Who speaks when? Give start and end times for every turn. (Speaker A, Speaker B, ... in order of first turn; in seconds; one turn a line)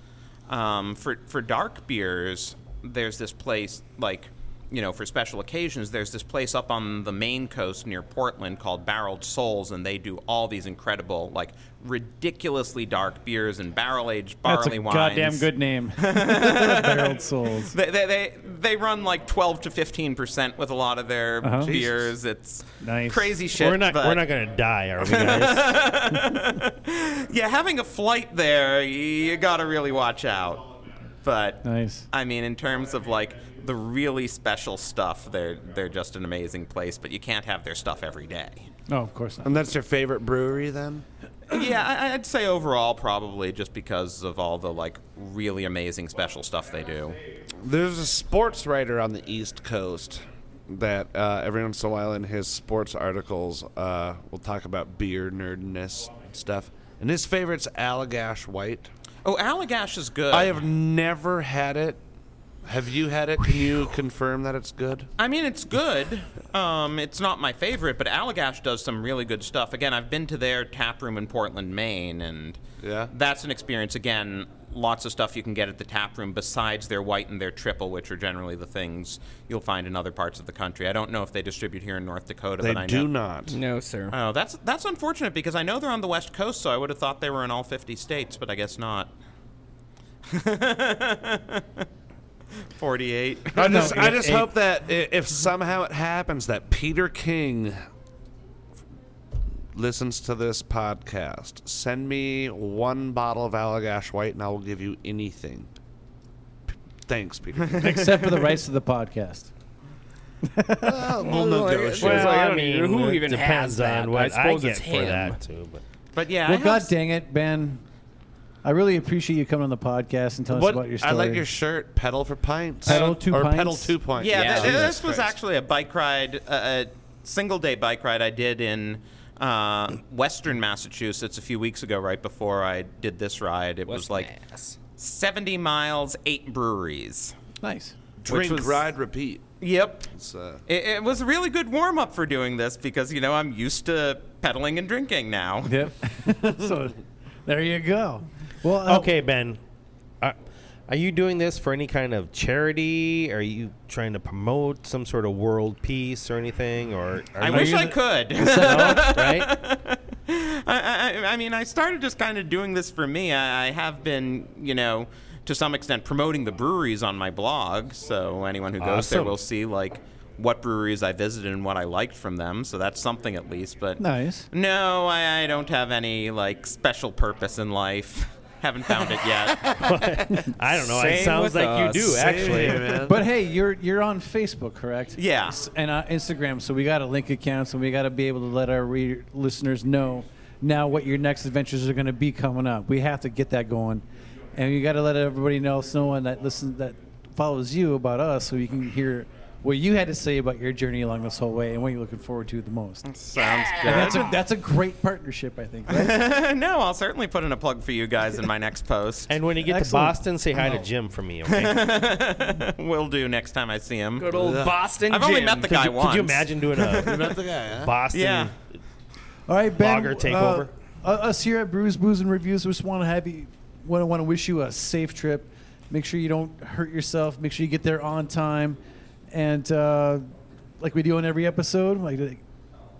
Speaker A: 0.5-24.2
Speaker B: 14.4-17.7
Speaker B: 21.4-21.7
Speaker C: 21.6-22.1
Speaker B: 22.8-23.3
Speaker D: 23.5-25.8
Speaker A: 25.0-30.7
Speaker A: 31.2-38.7
Speaker B: 31.6-32.1
Speaker B: 38.9-39.5
Speaker C: 39.4-41.0
Speaker A: 41.5-47.2
Speaker C: 47.5-58.9
Speaker A: 59.2-60.6
Speaker C: 60.3-62.0
Speaker C: 62.6-65.1
Speaker A: 65.2-72.6
Speaker C: 72.8-73.1
Speaker A: 73.1-83.1
Speaker C: 82.6-83.5
Speaker E: 83.5-84.1
Speaker A: 84.1-89.1
Speaker A: 90.3-91.8
Speaker A: 92.7-94.1
Speaker C: 93.5-97.8
Speaker B: 93.5-94.5
Speaker C: 99.7-105.7
Speaker C: 107.0-108.1
Speaker A: 107.8-108.5
Speaker B: 107.8-109.5
Speaker B: 110.4-111.0
Speaker C: 110.8-112.4
Speaker E: 111.2-115.4
Speaker D: 112.0-115.8
Speaker A: 116.1-116.9
Speaker B: 116.5-117.8
Speaker B: 118.6-121.4
Speaker C: 120.5-125.3
Speaker B: 122.8-124.0
Speaker A: 122.9-123.1
Speaker A: 124.2-134.3
Speaker E: 124.3-124.8
Speaker E: 133.8-134.8
Speaker A: 135.0-137.3
Speaker B: 137.6-137.9
Speaker C: 138.2-139.5
Speaker A: 138.3-138.8
Speaker A: 139.6-140.1
Speaker C: 140.1-140.6
Speaker A: 140.7-145.8
Speaker B: 145.6-149.1
Speaker D: 148.8-149.6
Speaker D: 150.9-157.9
Speaker A: 157.4-179.9
Speaker B: 157.5-159.4
Speaker D: 158.5-159.4
Speaker D: 168.8-169.3
Speaker B: 174.0-174.5
Speaker D: 179.5-183.1
Speaker E: 180.9-182.8
Speaker C: 182.0-183.2
Speaker B: 183.0-194.0
Speaker A: 185.2-185.6
Speaker B: 194.5-203.1
Speaker A: 203.1-204.3
Speaker E: 203.4-204.3
Speaker B: 203.8-206.2
Speaker A: 205.9-209.4
Speaker D: 209.3-211.8
Speaker B: 209.6-210.2
Speaker A: 211.4-214.4
Speaker E: 214.2-215.8
Speaker C: 214.3-214.8
Speaker A: 214.9-217.4
Speaker D: 215.8-218.5
Speaker C: 217.0-217.9
Speaker A: 218.1-218.5
Speaker B: 219.5-228.8
Speaker D: 219.8-220.7
Speaker B: 229.3-230.2
Speaker B: 230.8-232.4